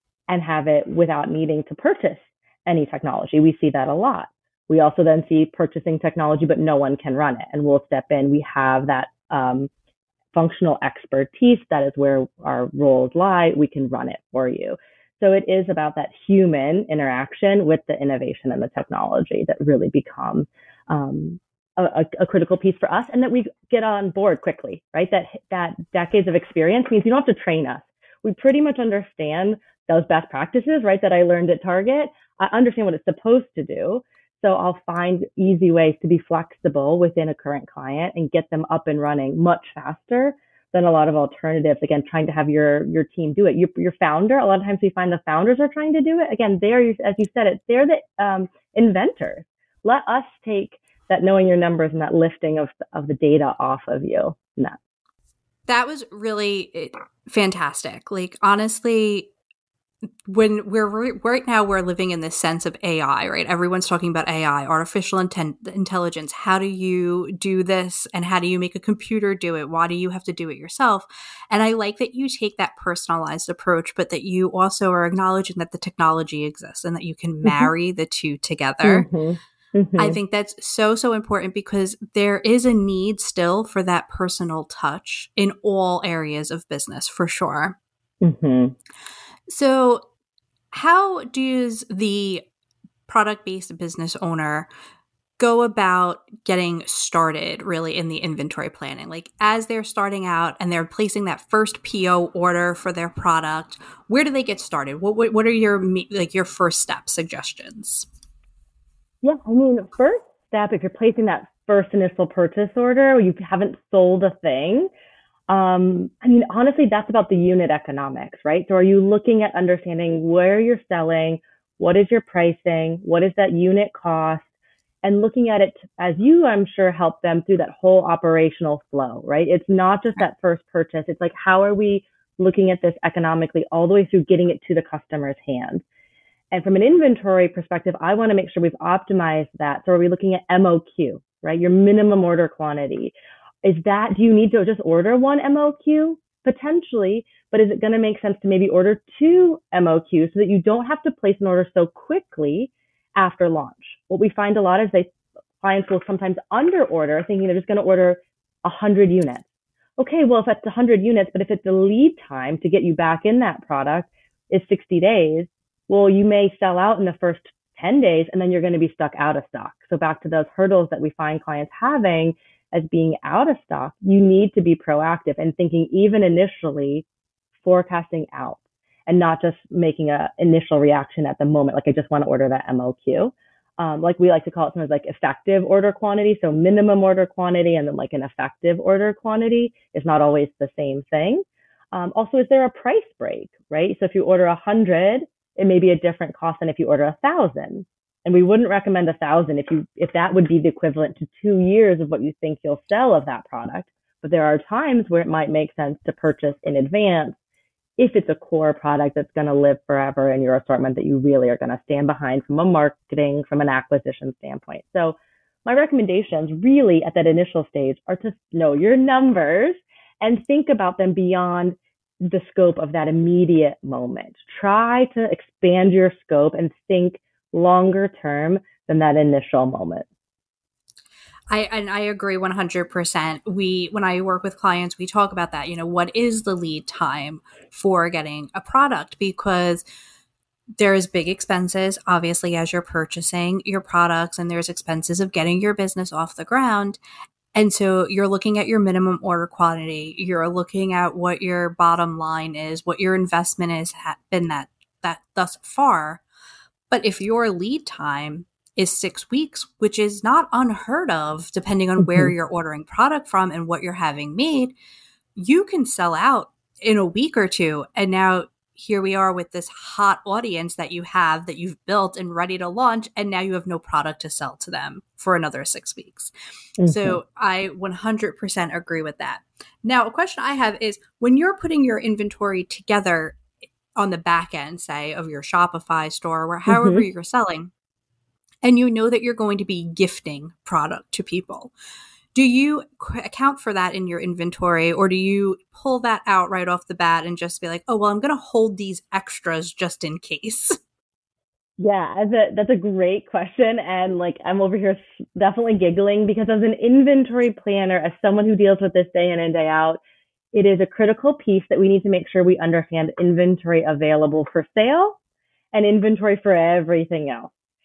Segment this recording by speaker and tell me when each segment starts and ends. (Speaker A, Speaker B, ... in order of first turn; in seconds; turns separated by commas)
Speaker A: 0.3-9.7, Speaker A: 10.3-54.8, Speaker B: 55.7-59.3, Speaker B: 60.2-79.1, Speaker A: 77.4-77.7, Speaker A: 78.8-80.2, Speaker B: 80.0-87.8, Speaker A: 88.2-88.7, Speaker B: 89.5-90.0, Speaker B: 90.7-92.5, Speaker B: 93.1-94.7, Speaker B: 95.4-108.1, Speaker A: 109.2-114.9, Speaker A: 115.5-124.5, Speaker A: 125.0-135.8, Speaker A: 136.5-159.5, Speaker A: 160.0-177.1, Speaker A: 177.6-207.4, Speaker A: 208.0-230.1, Speaker B: 231.5-239.8, Speaker B: 240.8-247.0, Speaker B: 247.5-256.2, Speaker B: 256.9-264.7, Speaker A: 262.0-262.3, Speaker B: 265.4-276.3, Speaker A: 276.8-277.2, Speaker B: 276.8-283.4, Speaker B: 283.9-287.7, Speaker A: 286.7-287.1, Speaker B: 288.6-291.7, Speaker B: 292.3-300.8, Speaker A: 301.8-310.0, Speaker A: 310.5-315.2, Speaker A: 315.7-317.5